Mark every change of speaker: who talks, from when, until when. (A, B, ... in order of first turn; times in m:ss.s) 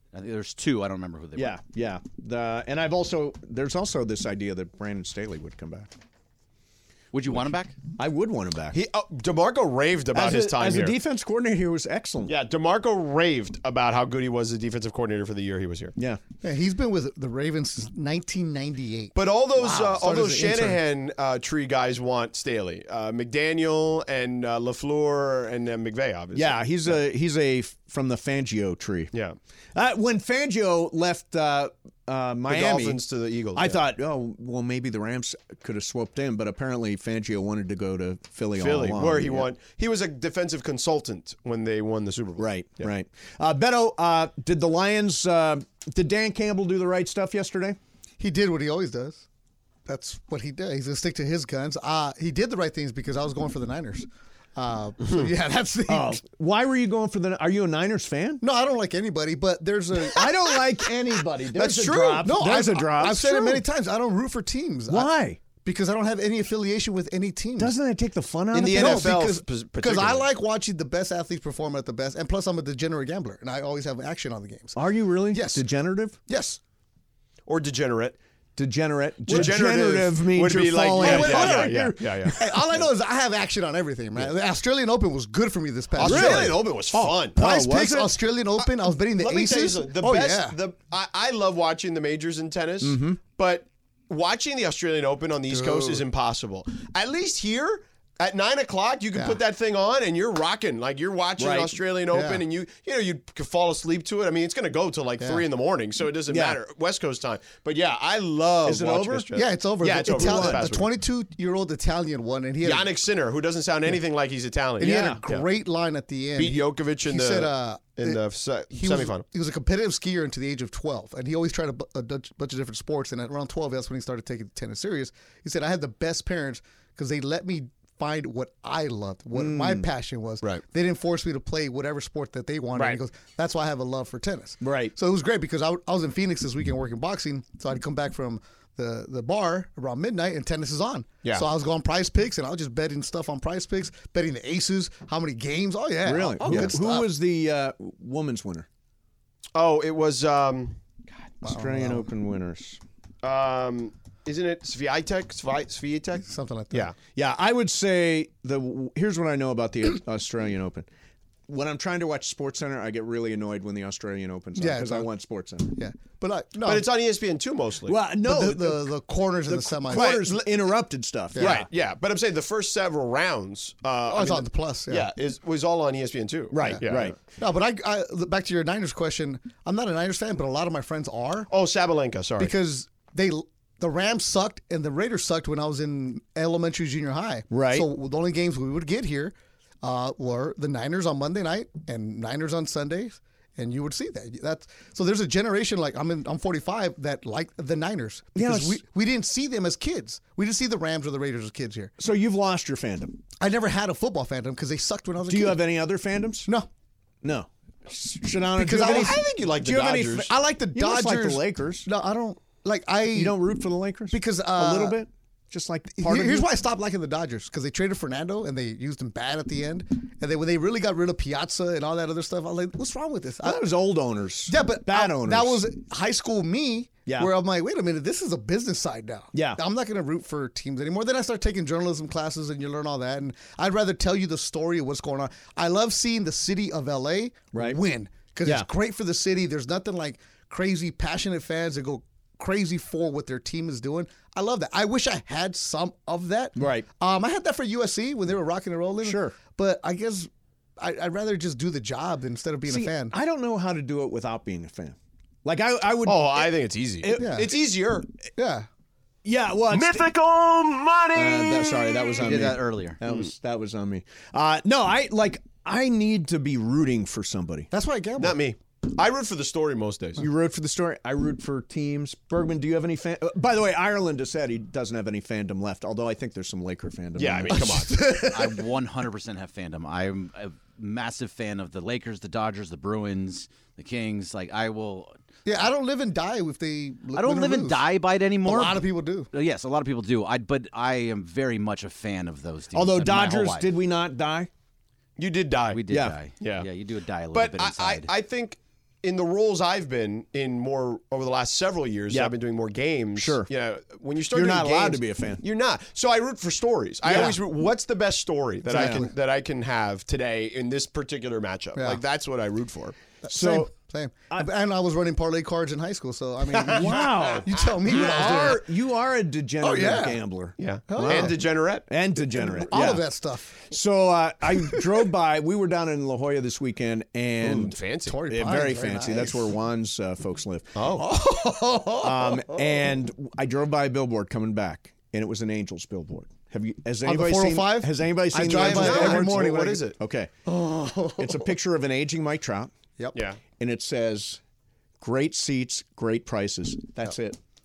0:00.1-0:01.6 A
0:01.4-0:05.9 B
0:07.1-0:07.7 A
0:08.0-0:08.8 B
0:08.7-0:11.0 C
0:10.1-0:12.3 B
0:12.3-0:15.9 C
0:16.4-0:20.8 D
0:19.1-0:27.0 C
0:26.3-0:29.1 B
0:29.7-0:33.0 B
0:32.5-0:33.8 C
0:33.5-0:39.5 B
0:38.6-0:42.9 C
0:42.4-0:47.8 B
0:48.2-0:49.2 D
0:49.8-0:56.2 D
0:55.9-0:58.4 B
0:58.4-1:07.8 D
1:00.0-1:03.6 B
1:01.6-1:02.2 C
1:04.9-1:05.4 B
1:07.6-1:09.2 B
1:08.5-1:10.3 C
1:08.6-1:15.6 D
1:14.7-1:16.2 B
1:16.3-1:16.6 D
1:17.5-1:18.2 C
1:18.6-1:22.5 B
1:19.3-1:19.6 D
1:19.3-1:22.5 C
1:20.9-1:30.6 D
1:26.0-1:27.4 C
1:26.0-1:28.2 B
1:29.1-1:50.9 C
1:32.8-1:33.2 B
1:35.5-1:36.0 D
1:39.1-1:39.4 D
1:41.4-1:41.8 B
1:42.1-1:42.4 D
1:45.2-1:45.5 D
1:46.3-1:46.6 B
1:48.6-1:49.3 B
1:49.3-1:52.9 D
1:49.9-1:50.7 B
1:52.6-1:55.4 C
1:54.8-2:27.1 D
1:54.8-1:55.2 B
1:56.4-1:59.2 C
2:09.3-2:09.9 B
2:14.6-2:14.9 B
2:26.0-2:28.6 B
2:26.4-2:26.8 C
2:29.5-2:30.8 C
2:31.4-2:32.1 D
2:31.4-2:32.8 B
2:33.2-2:37.0 C
2:36.2-2:36.9 D
2:37.1-2:40.8 B
2:41.5-2:45.7 B
2:44.6-2:45.1 D
2:45.8-2:46.9 D
2:46.6-2:48.0 C
2:47.8-2:51.7 B
2:48.1-2:50.4 D
2:49.9-2:50.4 C
2:51.3-2:51.7 D
2:51.4-2:57.2 C
2:54.1-2:55.1 D
2:56.5-2:57.2 B
2:56.6-3:01.5 D
3:01.5-3:02.5 C
3:02.4-3:21.9 D
3:07.5-3:07.8 B
3:18.3-3:18.8 B
3:22.0-3:23.2 B
3:23.4-3:25.8 D
3:25.3-3:26.5 B
3:27.2-3:31.9 B
3:28.5-3:29.2 D
3:28.8-3:30.3 C
3:30.3-3:33.5 D
3:33.1-3:36.5 B
3:34.1-3:35.0 D
3:35.9-3:43.8 D
3:43.4-3:45.6 B
3:44.5-4:13.2 D
3:47.1-3:47.3 B
3:49.3-3:49.6 B
3:57.5-3:57.8 B
4:06.6-4:06.8 B
4:09.0-4:09.4 B
4:12.7-4:17.5 B
4:16.0-4:18.0 C
4:17.1-4:17.6 D
4:18.4-4:18.7 D
4:19.2-4:20.1 B
4:19.7-4:22.5 C
4:21.1-4:27.7 B
4:22.2-4:23.0 A
4:27.7-4:28.4 D
4:28.2-4:30.2 C
4:30.2-4:37.9 B
4:37.2-4:38.0 C
4:37.6-4:38.6 D
4:38.3-4:45.1 A
4:45.4-4:47.8 D
4:47.1-4:53.7 A
4:48.4-4:49.3 D
4:52.7-4:54.5 B
4:55.2-4:55.8 C
4:55.7-4:58.1 A
4:55.9-4:56.2 B
4:56.4-4:56.7 C
4:57.3-5:13.0 C
5:02.1-5:02.3 B
5:03.2-5:03.5 B
5:04.3-5:05.4 B
5:07.0-5:07.4 B
5:08.7-5:09.1 D
5:08.7-5:09.1 B
5:11.8-5:12.0 D
5:13.2-5:18.7 D
5:13.3-5:13.7 B
5:16.5-5:18.6 C
5:16.7-5:23.0 B
5:19.6-5:20.2 D
5:20.6-5:21.8 C
5:20.9-5:21.5 D
5:22.3-5:23.7 D
5:23.6-5:27.8 B
5:24.6-5:25.1 D
5:27.4-5:28.2 C
5:28.1-5:29.5 D
5:28.3-5:30.7 B
5:30.8-5:31.1 C
5:31.0-5:32.8 D
5:32.0-5:40.3 B
5:37.0-5:39.9 D
5:38.4-5:40.0 C
5:40.4-5:41.5 D
5:41.2-5:42.7 B
5:43.1-5:43.4 C
5:43.6-5:44.4 B
5:45.0-5:47.4 B